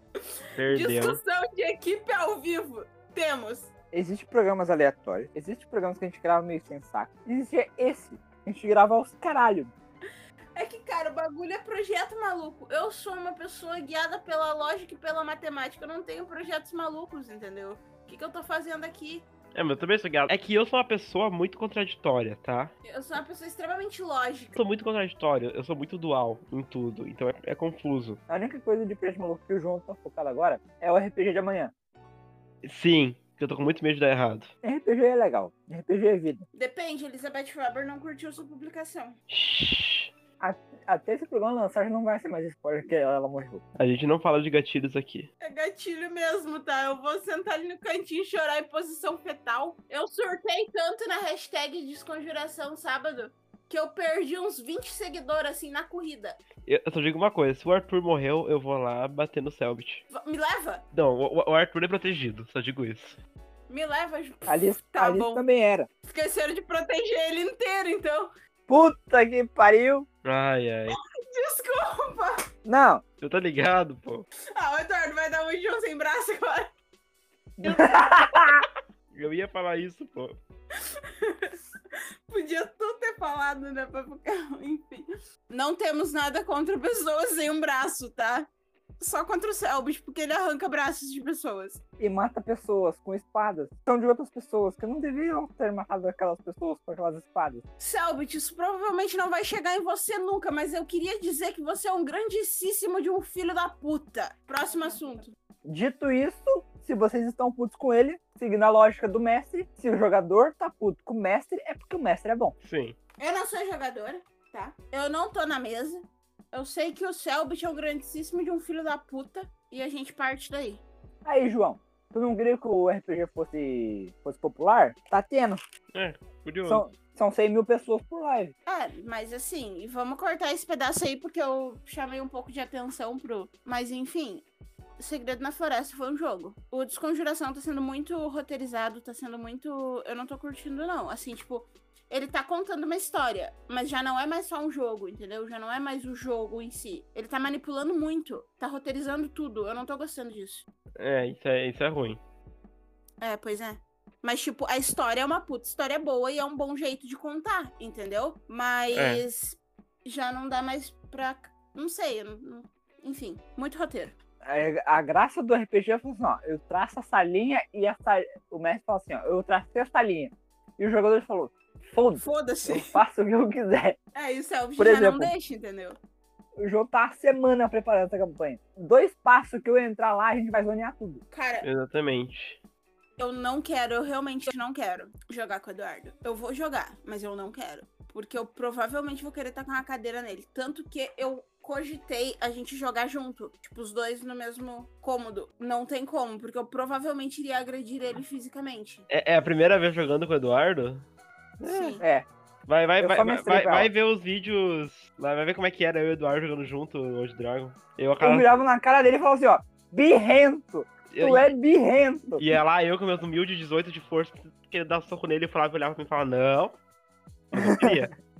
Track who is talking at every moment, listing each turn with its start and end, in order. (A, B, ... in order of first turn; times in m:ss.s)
0:00.6-0:01.2 A
0:00.7-0:03.7 B
0:03.9-0:09.7 C
0:10.6-0:19.3 B
0:19.5-0:22.7 A
0:22.8-0:24.5 B
0:24.6-0:28.2 A
0:28.3-0:31.7 C
0:32.6-0:34.5 A
0:34.6-0:36.4 C
0:36.5-0:39.2 B
0:39.3-0:40.1 A
0:40.4-0:43.6 C
0:43.8-0:45.3 A
0:45.4-0:56.4 B
0:56.7-1:00.0 A
1:00.1-1:00.8 B
1:00.9-1:03.2 A
1:03.7-1:05.4 B
1:04.5-1:05.9 C
1:06.0-1:08.3 B
1:08.7-1:10.1 C
1:10.2-1:11.0 A
1:10.9-1:12.5 B
1:12.6-1:13.0 C
1:13.2-1:14.3 A
1:14.6-1:16.7 B
1:17.6-1:18.6 C
1:17.6-1:18.6 B
1:19.1-1:20.4 A
1:21.2-1:21.6 B
1:22.3-1:28.5 B
1:29.0-1:31.8 B
1:32.0-1:37.6 C
1:37.8-1:45.3 B
1:45.6-1:52.6 C
1:52.6-1:53.0 A
1:53.2-2:00.8 B
2:01.2-2:05.6 C
2:05.9-2:06.8 A
2:06.6-2:08.5 C
2:08.7-2:14.5 B
2:15.0-2:30.7 B
2:31.0-2:32.2 A
2:33.2-2:44.1 B
2:38.9-2:39.2 A
2:44.4-2:54.0 C
2:52.2-2:53.0 B
2:54.2-2:56.0 B
2:54.8-2:55.3 C
2:56.6-3:01.2 C
3:01.3-3:01.7 B
3:01.6-3:02.6 A
3:03.2-3:19.1 B
3:19.1-3:21.1 A
3:21.6-3:22.0 A
3:21.6-3:22.0 B
3:22.0-3:22.3 C
3:22.7-3:28.5 A
3:23.0-3:23.9 C
3:28.2-3:32.4 C
3:31.1-3:31.5 A
3:32.4-3:36.8 A
3:37.5-3:38.1 A
3:37.6-3:38.0 C